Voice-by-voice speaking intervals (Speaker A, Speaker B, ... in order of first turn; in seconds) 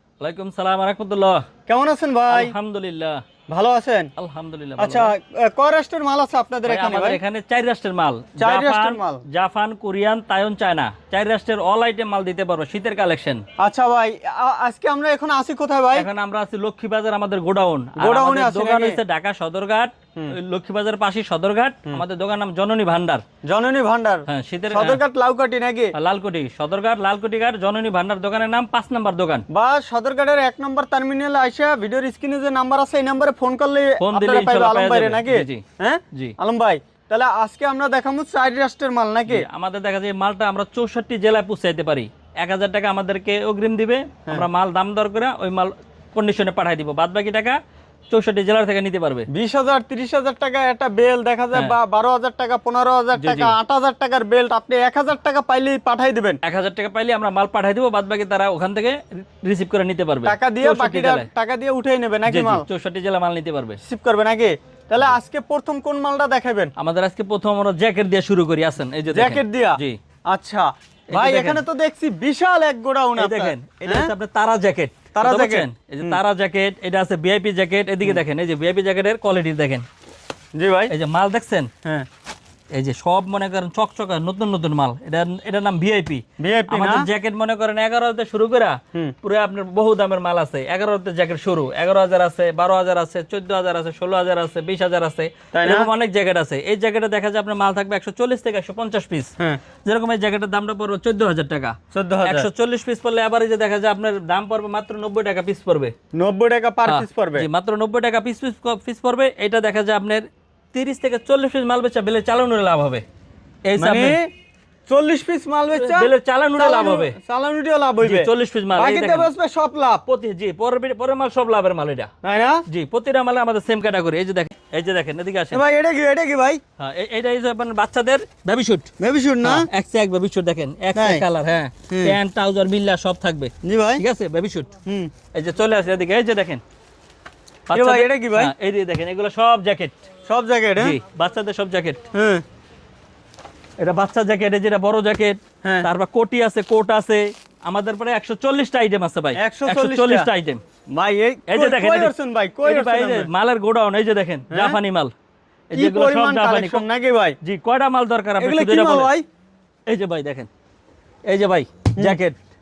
Speaker A: 0.2-1.4, 2.3-3.2, 4.2-5.1, 6.7-13.4, 15.9-23.2, 24.3-25.0, 25.9-29.4, 34.0-36.3, 39.3-47.6, 48.1-49.3, 53.2-53.6, 56.4-61.3, 62.2-63.8, 66.8-70.0, 71.1-71.6, 73.2-79.8, 80.9-81.7, 82.7-99.3, 99.8-105.9, 106.9-113.0, 113.6-114.2, 115.7-117.2, 118.0-119.3, 120.0-122.1, 122.7-125.6, 126.8-128.9, 129.4-134.7, 135.3-136.6, 137.7-139.9, 140.8-142.0, 143.8-150.6, 151.5-152.1, 152.6-155.1, 155.7-156.8, 157.4-159.1, 159.9-160.5, 161.2-162.4
Speaker B: 1.7-2.5, 3.5-4.1, 4.8-7.2, 8.4-9.2, 13.6-16.1, 18.0-19.0, 23.4-25.9, 29.5-39.4, 49.3-56.4, 60.2-62.6, 63.8-66.7, 69.1-74.1, 75.1-76.2, 80.5-80.9, 86.4-87.1, 95.5-95.9, 101.9-102.5, 106.1-107.5, 113.8-114.3, 114.9-120.0, 122.2-122.6, 125.5-126.6, 129.0-129.7, 130.9-131.2, 131.9-132.2, 133.6-134.0, 134.8-135.1, 137.7-138.5, 140.3-141.0, 142.1-142.4, 149.3-150.3, 150.9-153.3, 154.5-154.8, 155.7-157.4, 158.4-159.2